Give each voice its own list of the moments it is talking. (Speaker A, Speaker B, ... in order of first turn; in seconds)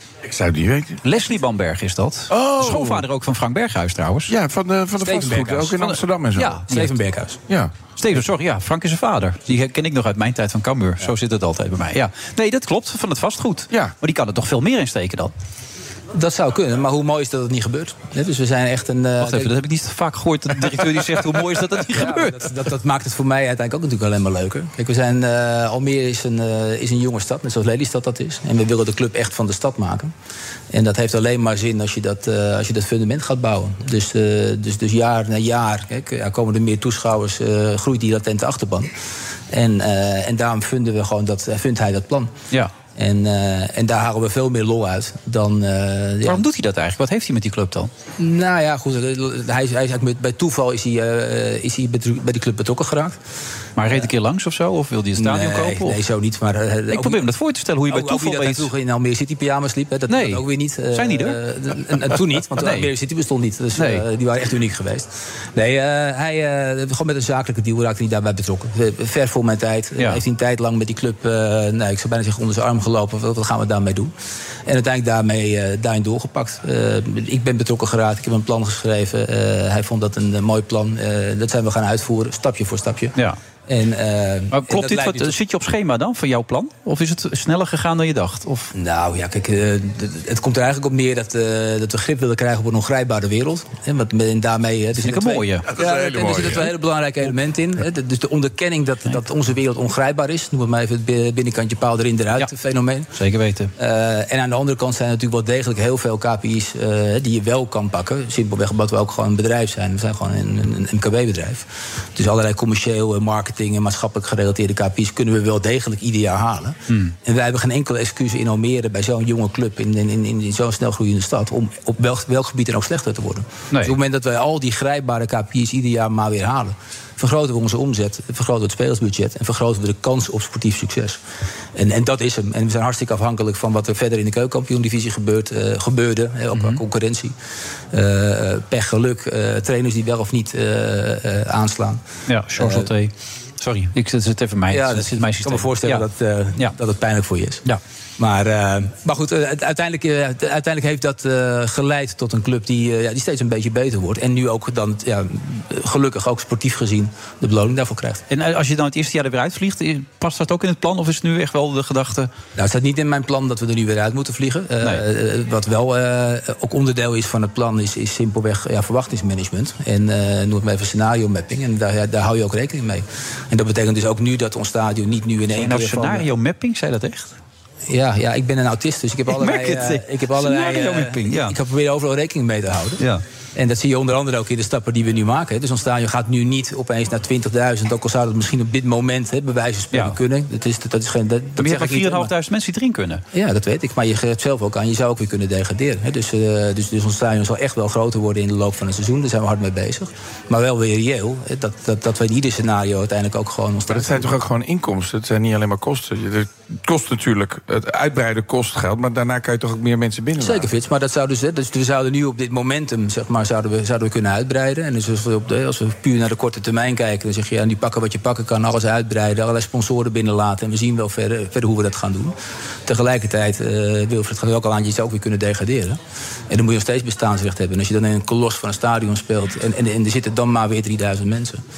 Speaker A: 0.2-1.0, 2.3-3.0, 4.3-6.6, 95.7-96.7, 203.9-210.7
Speaker B: 1.0-4.3, 5.8-6.9, 8.0-15.3, 19.2-22.5, 46.3-47.9, 53.8-56.0, 56.9-58.7, 60.1-61.4, 62.6-62.9, 63.8-64.0, 84.5-88.7, 95.0-95.7, 103.1-103.7, 116.9-117.1, 136.5-136.8, 142.3-146.0, 158.3-162.3, 175.6-177.3, 179.3-181.6, 191.6-193.2
Speaker C: 5.0-5.7, 6.4-7.4, 16.1-19.5, 21.9-30.1, 30.7-38.9, 39.5-42.3, 43.0-46.5, 48.2-53.2, 55.2-57.2, 57.9-74.1, 74.7-83.1, 83.7-85.4, 88.7-103.1, 103.8-131.2, 131.8-137.3, 137.9-142.0, 142.6-142.9, 144.7-147.6, 148.2-158.2, 162.6-176.3, 177.9-183.0, 183.6-192.3, 193.3-204.3, 210.4-222.3, 222.9-226.0, 226.5-231.6